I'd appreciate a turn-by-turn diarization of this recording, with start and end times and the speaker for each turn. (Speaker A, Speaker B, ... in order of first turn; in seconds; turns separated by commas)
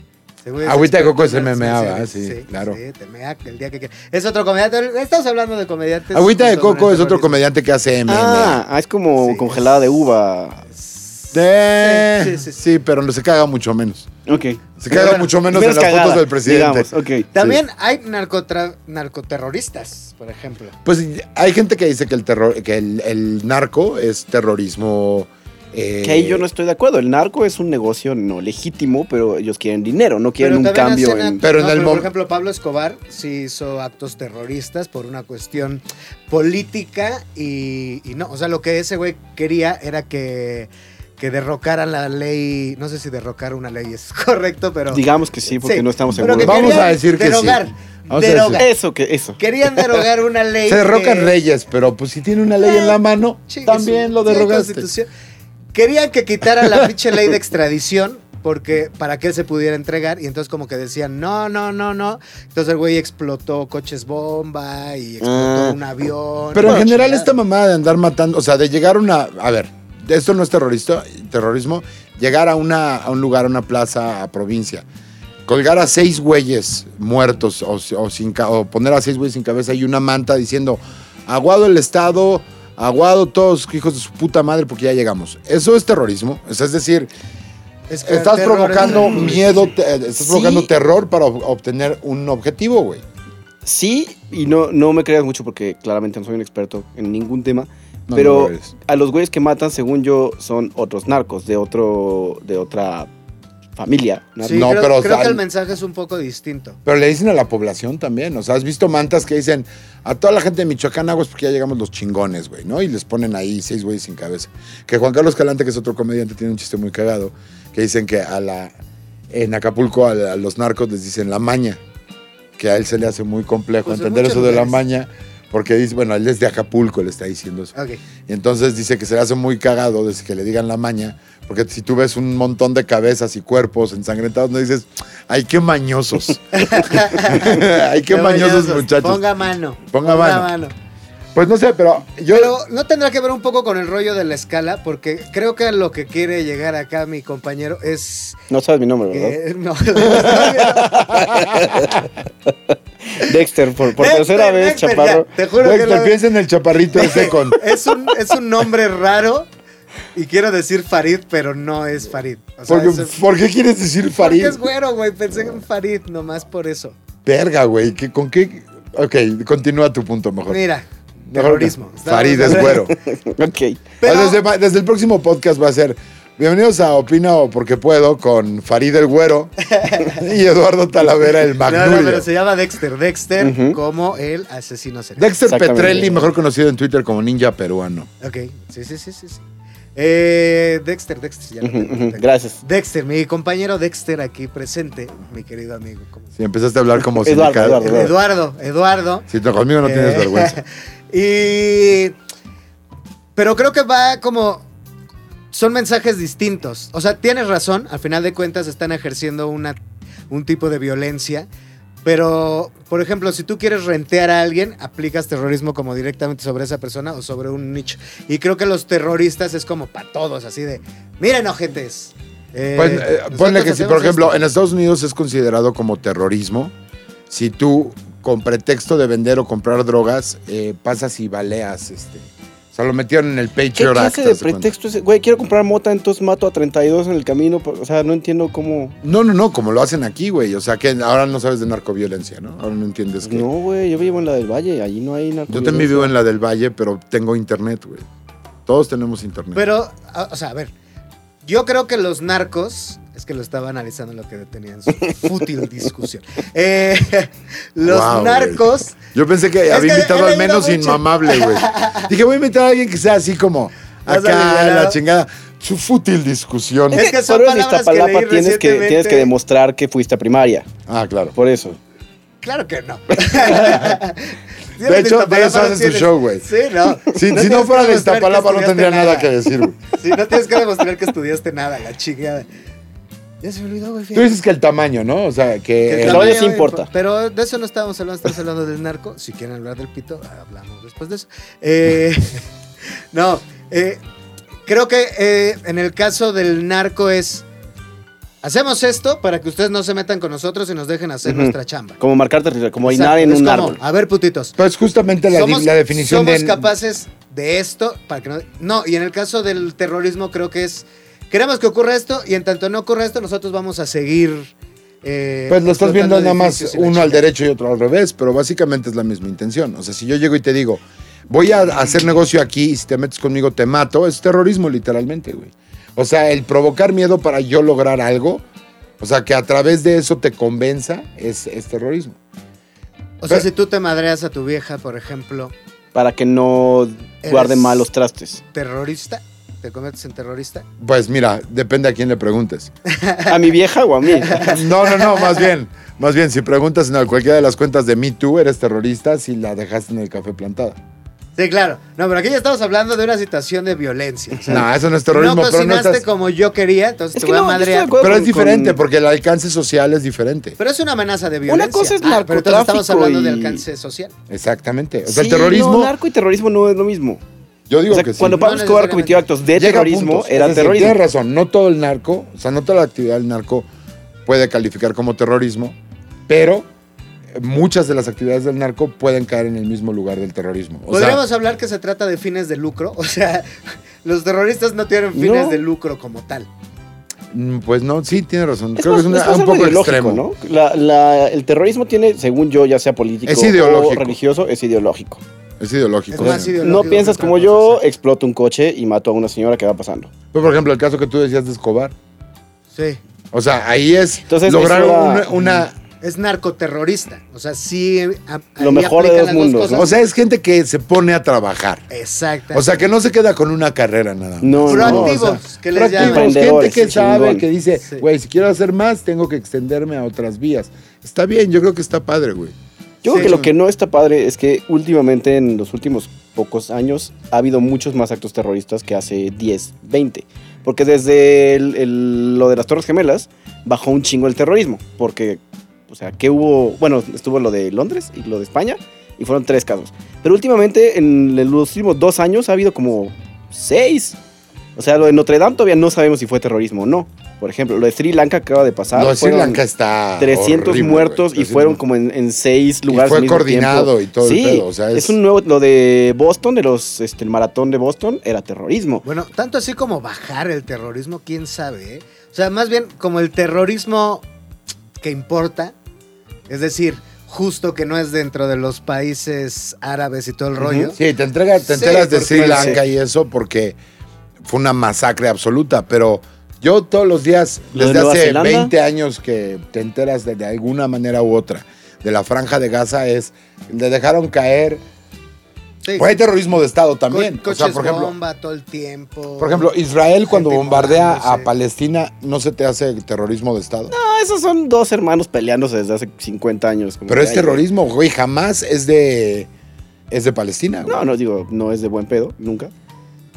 Speaker A: 0.4-7.4, Speaker B: 0.6-2.8, Speaker B: 6.1-8.6, Speaker C: 8.1-10.6, Speaker A: 9.2-10.0, Speaker A: 10.8-12.5, Speaker B: 11.3-14.1, Speaker C: 14.3-17.3, Speaker B: 14.8-17.6, Speaker A: 14.9-15.2, Speaker A: 17.3-20.7, Speaker B: 20.8-26.4, Speaker C: 26.0-31.4, Speaker A: 30.4-45.0, Speaker B: 31.4-32.1, Speaker C: 44.9-46.9, Speaker A: 45.6-48.7, Speaker B: 46.1-48.6, Speaker C: 48.6-50.0, Speaker A: 49.4-51.3, Speaker B: 50.6-54.9, Speaker A: 52.6-55.1, Speaker A: 55.7-67.3, Speaker C: 65.2-65.8, Speaker B: 66.5-74.8, Speaker C: 66.6-66.9, Speaker B: 75.5-87.1, Speaker A: 87.9-89.5, Speaker B: 88.0-93.0, Speaker C: 88.9-89.3, Speaker C: 90.2-90.7, Speaker C: 93.6-103.1, Speaker B: 98.1-98.7, Speaker C: 103.8-104.7, Speaker A: 104.4-106.8, Speaker B: 104.5-105.4, Speaker B: 106.8-118.7, Speaker B: 119.3-121.8, Speaker B: 122.6-127.7, Speaker A: 123.8-124.8, Speaker B: 128.3-139.2, Speaker A: 136.5-140.7, Speaker B: 139.9-140.5, Speaker B: 141.3-142.6, Speaker A: 142.3-148.4, Speaker C: 148.5-149.4, Speaker A: 149.1-151.4, Speaker B: 150.0-152.0, Speaker C: 151.2-151.9, Speaker C: 152.5-155.3, Speaker A: 153.9-156.2, Speaker B: 155.6-157.6, Speaker A: 156.9-159.5, Speaker A: 160.1-163.1, Speaker B: 162.7-164.6, Speaker A: 164.2-166.9, Speaker B: 167.2-170.6, Speaker A: 170.5-172.9, Speaker B: 171.3-172.9, Speaker C: 172.5-173.9, Speaker A: 174.0-174.4, Speaker B: 174.0-182.3, Speaker A: 179.7-180.2, Speaker A: 181.6-185.4, Speaker C: 183.4-183.8, Speaker B: 185.2-188.1, Speaker C: 185.4-186.2, Speaker A: 185.9-186.3, Speaker A: 188.2-189.4, Speaker A: 189.9-196.3, Speaker C: 191.6-192.6, Speaker B: 196.4-198.1, Speaker C: 197.1-198.1, Speaker A: 197.8-199.3, Speaker B: 199.3-200.6, Speaker A: 199.8-202.1, Speaker A: 203.3-204.7, Speaker A: 205.5-209.8, Speaker A: 210.3-211.5, Speaker A: 212.0-224.4, Speaker B: 222.7-226.7, Speaker B: 227.3-234.7, Speaker C: 233.7-238.9, Speaker B: 239.0-243.5, Speaker C: 243.2-246.1, Speaker B: 245.5-248.0, Speaker B: 248.7-249.6, Speaker A: 249.5-250.7, Speaker A: 251.4-259.0, Speaker B: 257.8-267.1, Speaker A: 259.7-262.1, Speaker A: 264.1-265.0, Speaker A: 266.9-269.3, Speaker C: 266.9-270.7, Speaker B: 270.9-271.3, Speaker C: 271.4-271.8, Speaker A: 272.4-279.3, Speaker B: 273.3-274.0, Speaker B: 274.8-276.5, Speaker B: 277.1-279.8, Speaker A: 279.9-282.5, Speaker A: 283.4-284.3, Speaker B: 284.1-286.4, Speaker A: 285.9-292.4, Speaker C: 286.0-286.9, Speaker A: 293.1-294.0, Speaker A: 294.6-297.4, Speaker A: 298.4-302.0, Speaker C: 301.2-303.8, Speaker A: 302.8-304.6, Speaker B: 304.6-306.7, Speaker A: 305.3-317.3, Speaker B: 315.5-328.4, Speaker B: 329.0-332.2, Speaker A: 333.2-335.5, Speaker C: 335.9-338.4, Speaker A: 337.2-337.9, Speaker A: 338.5-340.6, Speaker B: 340.8-342.7, Speaker A: 342.9-343.4, Speaker C: 343.3-344.5, Speaker A: 344.1-345.5, Speaker B: 344.3-350.8, Speaker A: 351.4-358.0, Speaker B: 354.5-356.1, Speaker C: 357.1-358.8, Speaker B: 358.0-360.6, Speaker A: 360.6-364.1, Speaker C: 361.5-363.6, Speaker B: 364.3-365.9, Speaker C: 365.1-367.2, Speaker B: 367.7-368.4, Speaker C: 367.9-371.0, Speaker A: 368.3-369.3, Speaker B: 369.6-373.7, Speaker B: 374.2-375.8, Speaker B: 376.3-376.7, Speaker B: 377.3-381.2, Speaker A: 380.9-383.5, Speaker A: 384.0-386.5, Speaker C: 385.1-385.6, Speaker B: 387.3-390.2, Speaker C: 388.8-395.2, Speaker B: 393.2-394.2, Speaker B: 395.6-397.0, Speaker A: 396.1-397.8, Speaker C: 396.2-400.1, Speaker B: 400.3-401.9, Speaker A: 402.7-403.0, Speaker B: 403.3-405.8, Speaker C: 404.3-405.6, Speaker A: 406.0-410.0, Speaker C: 408.6-409.9, Speaker B: 409.7-411.8, Speaker A: 411.9-412.8, Speaker B: 412.5-422.5, Speaker C: 414.4-415.3, Speaker A: 414.7-416.5, Speaker C: 415.9-417.4, Speaker C: 423.0-444.1, Speaker A: 423.1-423.5, Speaker B: 423.1-423.5, Speaker C: 444.8-449.6, Speaker B: 448.9-451.8, Speaker C: 450.2-459.0, Speaker B: 452.9-455.1, Speaker A: 459.0-464.2, Speaker A: 465.0-465.7, Speaker A: 466.5-471.0, Speaker C: 470.6-470.9, Speaker B: 470.9-473.8, Speaker A: 471.6-472.8, Speaker C: 472.4-472.8, Speaker B: 474.4-484.8, Speaker C: 477.7-478.7, Speaker B: 485.9-488.1, Speaker A: 487.1-489.7, Speaker B: 489.4-493.9, Speaker A: 490.3-491.5, Speaker C: 493.9-497.6, Speaker B: 497.1-499.5, Speaker B: 500.1-501.1, Speaker C: 500.9-502.7